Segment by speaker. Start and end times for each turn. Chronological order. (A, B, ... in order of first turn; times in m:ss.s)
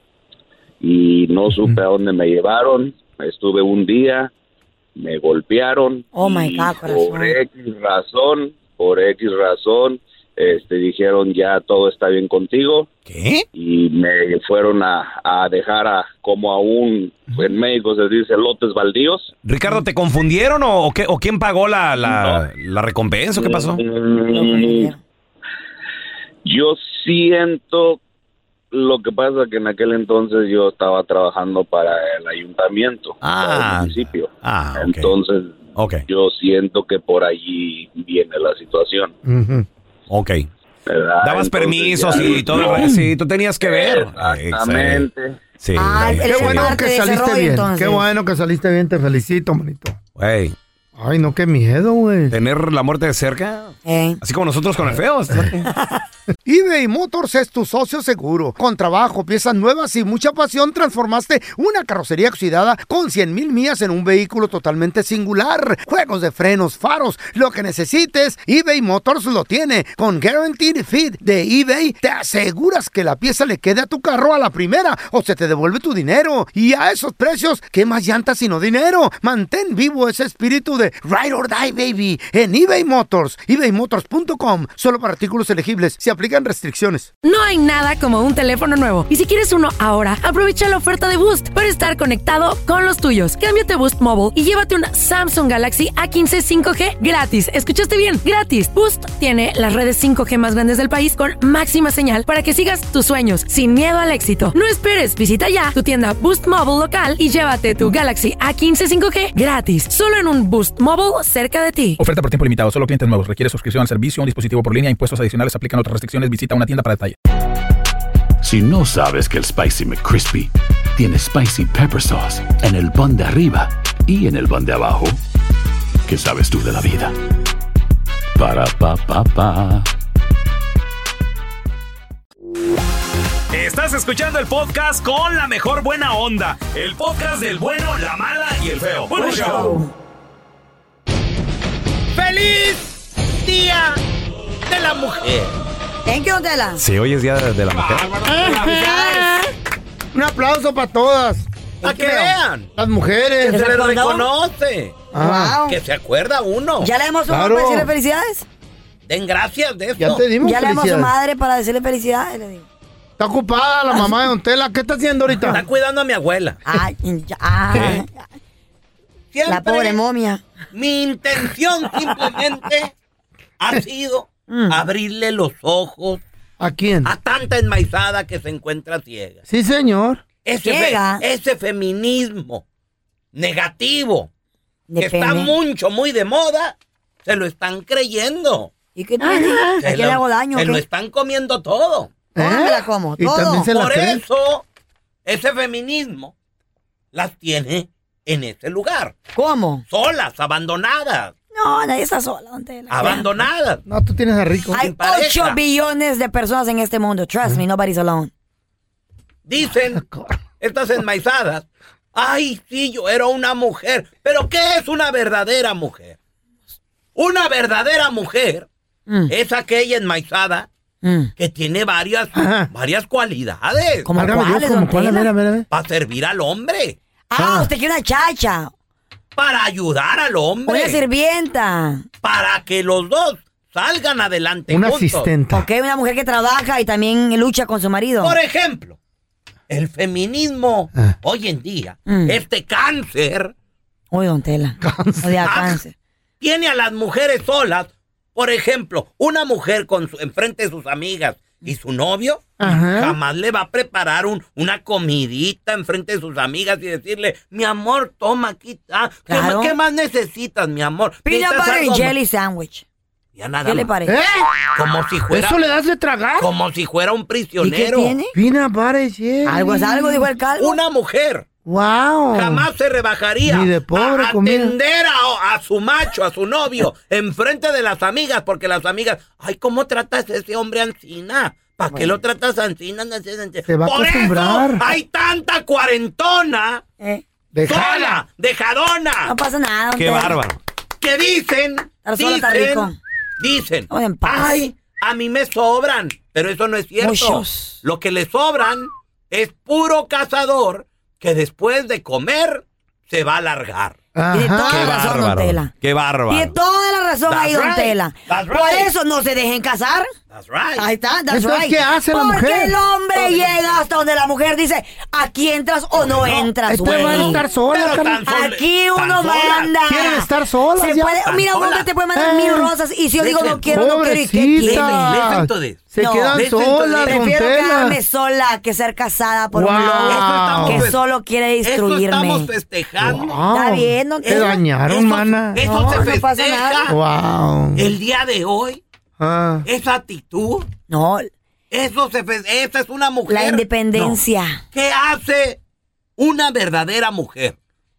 0:00.8-0:04.3 A
0:05.0-0:12.9 A
0:06.1-0:07.4 B
0:13.0-0:13.4 C
0:13.5-0:19.3 A
0:19.4-0:23.8 C
0:22.0-0:22.4 A
0:23.3-0:24.9 A
0:24.3-0:25.0 B
0:26.4-0:28.0 A
0:28.7-0:39.1 A
0:33.2-0:35.1 C
0:35.8-0:36.0 C
0:39.2-0:39.7 D
0:40.1-0:40.5 C
0:40.8-0:43.0 A
0:41.2-0:45.0 C
0:42.6-0:43.1 D
0:43.6-0:45.4 A
0:45.6-0:46.7 C
0:45.8-0:48.0 B
0:46.2-0:50.0 D
0:50.2-0:50.5 C
0:51.0-0:52.3 D
0:52.3-0:55.6 C
0:53.8-0:54.2 B
0:56.4-1:27.1 D
1:27.2-1:52.0 E
1:52.0-1:57.1 F
1:58.4-2:05.2 G
2:06.0-2:07.1 G
2:08.4-2:09.9 G
2:13.5-2:19.7 C
2:19.1-2:19.9 B
2:22.2-2:24.0 H
2:24.7-2:25.5 H
2:26.0-2:26.8 B
2:26.8-2:28.1 C
2:28.2-2:29.3 D
2:28.4-2:29.5 B
2:28.6-2:29.0 H
2:30.1-2:31.5 D
2:31.8-2:32.7 H
2:31.8-2:32.2 B
2:32.8-2:33.6 D
2:33.4-2:35.0 H
2:33.4-2:34.3 B
2:35.1-2:35.6 D
2:35.1-2:35.8 B
2:35.6-2:36.9 H
2:36.8-2:38.4 B
2:37.3-2:37.9 D
2:39.1-2:40.2 H
2:40.0-2:41.1 D
2:40.4-2:42.6 B
2:43.2-2:45.6 D
2:45.4-2:46.6 H
2:46.6-2:48.2 B
2:47.7-2:48.0 D
2:49.3-2:50.0 H
2:49.5-2:50.4 B
2:50.7-2:52.9 H
2:53.6-2:56.2 H
2:54.5-2:54.8 B
2:56.6-2:57.1 D
2:57.0-2:59.4 H
2:59.5-3:00.2 D
3:00.4-3:02.6 H
3:00.6-3:01.2 B
3:03.3-3:04.3 H
3:04.9-3:05.5 B
3:05.0-3:08.7 H
3:08.9-3:10.8 B
3:09.2-3:09.7 D
3:09.8-3:12.1 H
3:12.3-3:14.2 D
3:12.4-3:13.7 B
3:13.7-3:14.6 H
3:15.2-3:16.3 H
3:17.1-3:19.2 H
3:19.3-3:19.8 B
3:19.9-3:21.3 H
3:21.5-3:23.3 B
3:22.9-3:23.8 H
3:23.8-3:24.8 D
3:24.7-3:28.3 B
3:24.7-3:25.6 H
3:29.5-3:30.0 H
3:29.9-3:30.4 D
3:30.6-3:36.2 H
3:37.2-3:38.7 H
3:39.3-3:40.7 H
3:41.0-3:41.3 B
3:41.4-3:44.1 H
3:42.3-3:42.7 D
3:44.0-3:45.3 B
3:44.1-3:45.7 D
3:45.7-3:47.0 H
3:47.3-3:48.7 B
3:47.4-3:47.7 D
3:49.4-3:51.0 H
3:50.6-3:52.0 B
3:52.2-3:55.3 H
3:54.7-3:55.6 D
3:55.5-3:58.4 B
3:58.2-3:59.0 H
3:59.7-4:03.5 H
4:02.0-4:02.4 B
4:04.1-4:05.9 B
4:04.8-4:05.5 D
4:05.4-4:05.8 H
4:06.4-4:22.1 H
4:12.6-4:13.2 D
4:19.3-4:19.7 B
4:21.2-4:22.8 B
4:23.4-4:23.9 H
4:23.6-4:24.1 B
4:24.0-4:24.5 D
4:24.7-4:25.6 H
4:25.3-4:26.5 D
4:26.4-4:28.1 H
4:27.6-4:28.3 B
4:28.3-4:30.2 D
4:29.4-4:30.8 B
4:30.6-4:31.5 H
4:31.6-4:32.7 D
4:32.3-4:46.8 H
4:33.4-4:34.7 D
4:43.7-4:44.8 D
4:47.5-4:48.2 D
4:47.6-4:49.3 H
4:49.2-4:50.4 B
4:50.0-4:50.6 C
4:51.0-5:04.0 H
4:52.0-4:53.0 B
4:53.9-4:54.5 B
4:57.0-4:57.8 B
5:04.1-5:04.9 D
5:04.3-5:05.7 B
5:04.7-5:06.5 C
5:06.3-5:10.1 B
5:07.3-5:08.9 H
5:10.3-5:10.8 H
5:10.8-5:17.4 B
5:11.3-5:12.8 D
5:13.2-5:13.5 H
5:16.0-5:19.7 H
5:16.7-5:18.2 D
5:18.2-5:25.2 B
5:19.9-5:21.2 D
5:21.3-5:21.9 H
5:22.1-5:22.7 D
5:23.2-5:23.7 H
5:23.7-5:28.0 D
5:24.6-5:27.2 H
5:26.0-5:26.4 B
5:27.0-5:32.5 B
5:29.5-5:30.9 D
5:30.1-5:31.0 H
5:31.6-5:33.4 H
5:33.0-5:35.6 D
5:33.5-5:34.6 B
5:34.2-5:37.0 H
5:35.6-5:36.9 B
5:36.9-5:37.9 D
5:37.7-5:38.8 H
5:39.2-5:39.6 D
5:39.6-5:40.6 H
5:40.9-5:41.3 B
5:41.7-5:44.2 H
5:43.3-5:44.6 B
5:44.7-5:45.6 H
5:46.2-5:47.6 H